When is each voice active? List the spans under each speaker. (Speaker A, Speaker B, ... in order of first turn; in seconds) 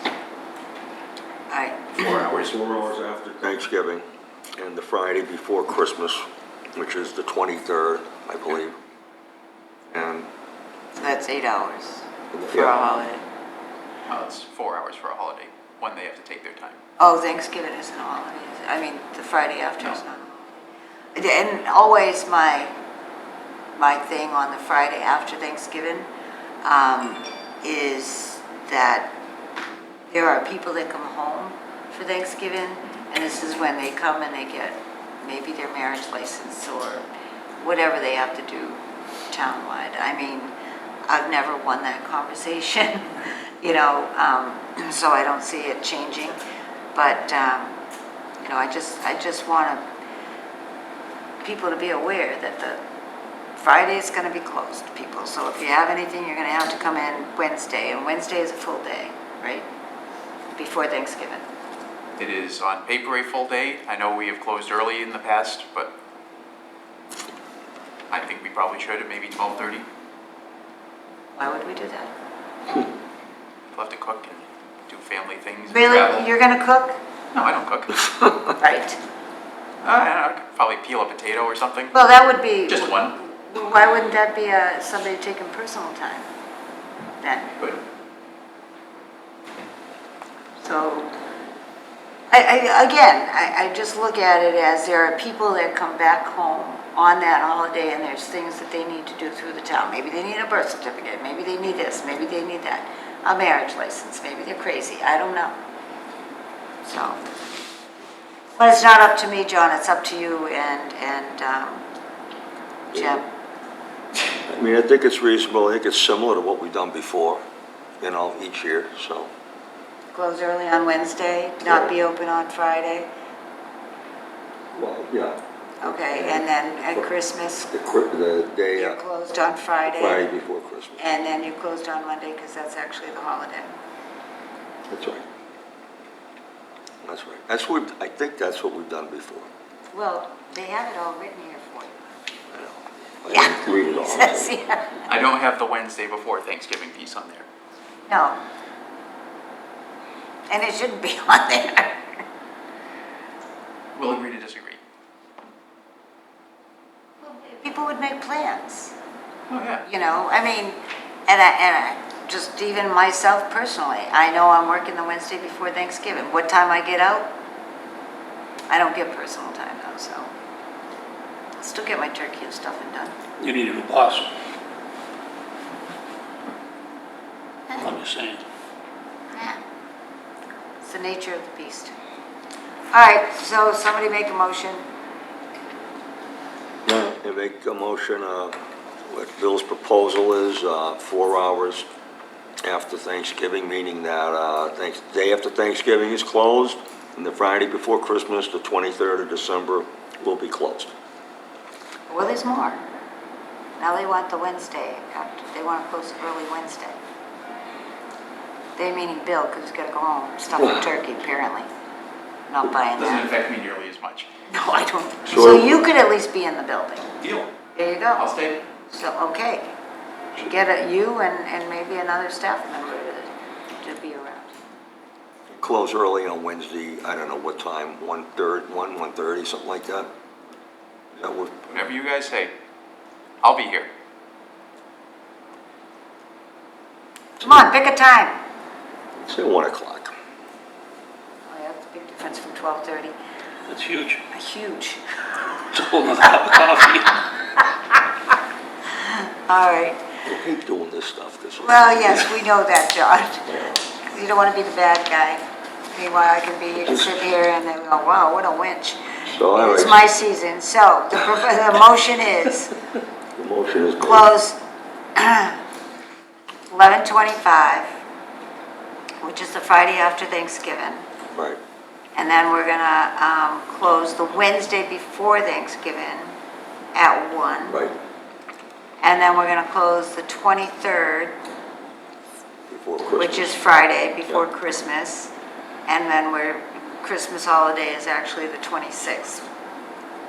Speaker A: 1.5-2.0, 10.9-13.2, 17.0-20.6, 21.1-22.7, 23.8-26.1, 26.6-29.1, 30.1-37.0, 37.6-40.5, 41.1-46.4, 46.9-47.8, 48.4-49.8, 51.4-52.8, 53.6-59.7, 60.5-61.4, 71.3-72.1, 75.7-77.0, 78.5-79.0, 81.9-86.3, 87.2-87.5, 90.6-91.1, 92.3-105.5, 106.8-107.2, 108.5-111.8, 112.9-113.3, 120.1-123.1, 125.8-127.7, 128.7-130.2, 131.0-133.7, 139.9-142.0, 143.3-145.0, 148.1-148.4, 150.5-152.0, 157.2-158.9, 159.8-167.3, 168.7-170.3, 171.6-173.1, 179.3-179.6, 180.8-181.9, 182.9-184.8, 202.1-202.8, 203.8-207.0, 208.8-211.7, 212.5-213.3, 214.5-217.1, 217.7-218.2, 218.9-219.7, 220.4-224.5, 237.4-238.3, 241.5-243.1, 244.3-245.4, 249.0-250.0, 251.6-259.0, 259.5-262.7, 264.0-264.6, 265.1-265.6, 266.7-267.9, 269.2-271.0, 272.1-276.3, 276.9-277.8, 279.0-281.4, 283.1-285.3, 285.9-289.4
Speaker B: 1.9-2.7, 14.1-16.8, 62.2-65.9, 68.1-69.8, 73.7-76.3, 77.3-78.1, 79.8-81.9, 82.7-83.2, 145.0-147.5, 153.9-154.8, 159.5-159.8, 212.9-214.3, 217.2-217.5, 218.2-218.6, 231.7-232.5, 233.4-233.9
Speaker C: 2.0-4.0, 4.6-6.2, 6.7-8.8, 9.9-10.3, 12.3-12.7, 114.5-117.4, 118.0-119.3, 121.6-121.9, 124.7-127.0, 127.7-129.0, 129.9-131.1, 134.9-135.2, 137.0-139.5, 142.5-144.6, 186.8-191.9, 192.6-200.9, 215.3-215.7, 225.5-230.1, 231.2-231.8, 237.4-237.7, 239.2-240.1, 250.2-252.3, 256.8-257.1, 259.3-260.1, 263.4-264.3, 271.3-271.6, 277.7-277.9, 282.7-283.6
Speaker D: 173.4-174.3, 177.7-178.4, 243.7-244.2, 245.7-247.6